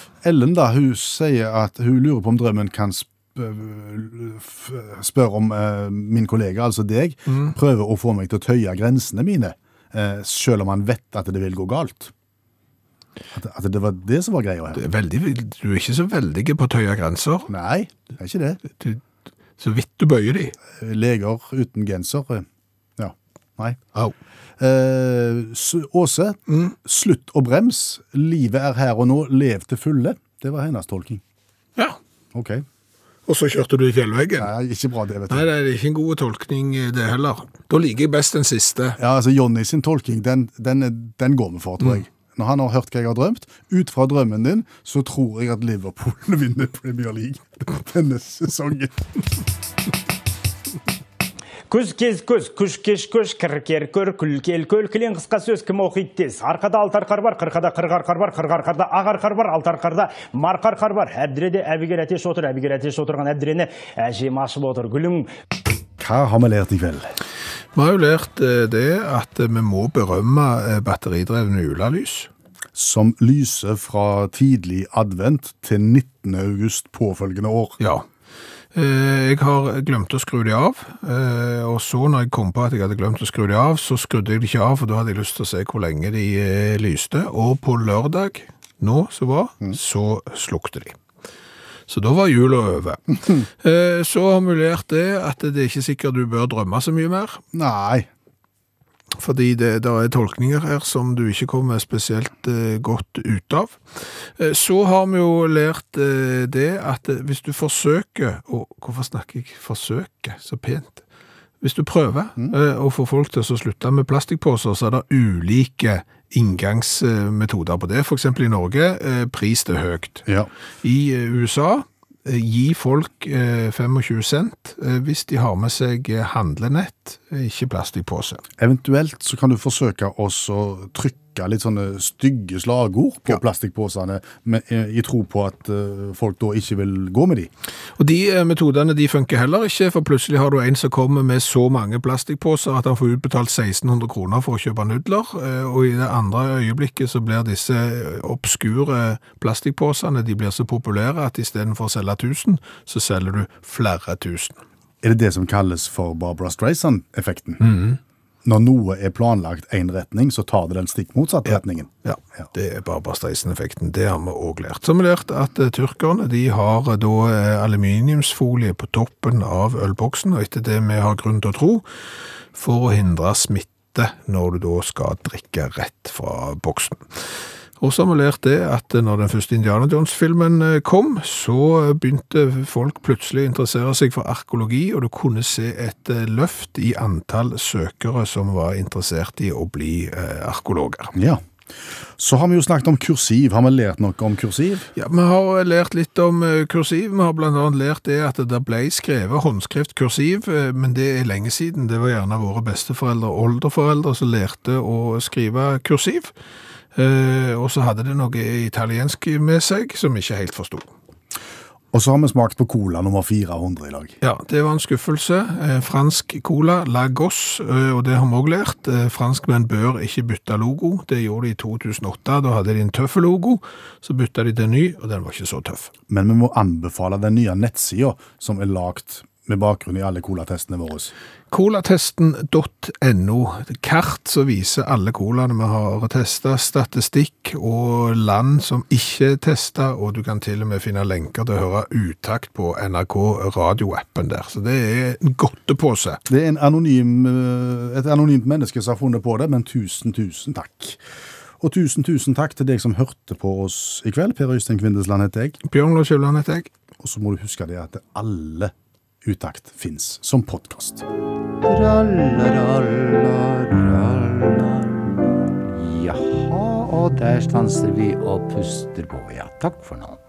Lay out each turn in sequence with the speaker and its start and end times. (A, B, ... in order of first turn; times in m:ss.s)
0:00.2-0:12.1 A
0:13.3-0:14.8 A
0:14.7-0:17.5 B
0:17.5-0:18.6 A
0:18.8-0:19.0 B
0:19.6-0:20.5 B
0:20.7-0:22.4 A
0:23.0-0:23.8 A
0:24.6-0:31.2 A
0:32.3-0:32.6 A
0:33.3-0:34.5 B
0:34.4-0:35.4 A
0:35.3-0:39.0 B
0:39.0-0:49.0 A
0:51.7-1:05.3 C
1:06.0-1:07.1 A
1:07.7-1:12.3 B
1:12.7-1:17.8 A
1:17.8-1:18.0 B
1:18.7-1:31.0 B
1:31.9-1:37.4 B
1:37.5-1:38.1 A
1:39.1-1:43.8 B
1:44.4-1:51.0 B
1:51.6-2:00.3 B
2:00.8-2:08.4 B
2:08.6-2:17.5 A
2:18.0-2:34.6 B
2:35.0-2:37.6 A
2:37.6-2:38.0 B
2:38.4-2:42.5 A
2:41.4-2:51.8 B
2:52.5-2:57.0 B
2:57.8-3:11.1 B
3:11.1-3:11.4 A
3:12.2-3:14.9 A
3:14.9-3:26.3 B
3:26.9-3:30.9 B
3:31.9-3:34.2 A
3:34.2-3:45.9 B
3:46.1-3:51.1 A
3:51.5-4:06.2 B
4:06.3-4:11.0 A
4:11.6-4:15.6 A
4:15.6-4:16.7 B
4:17.0-4:18.7 A
4:19.2-4:21.0 A
4:21.6-4:30.2 D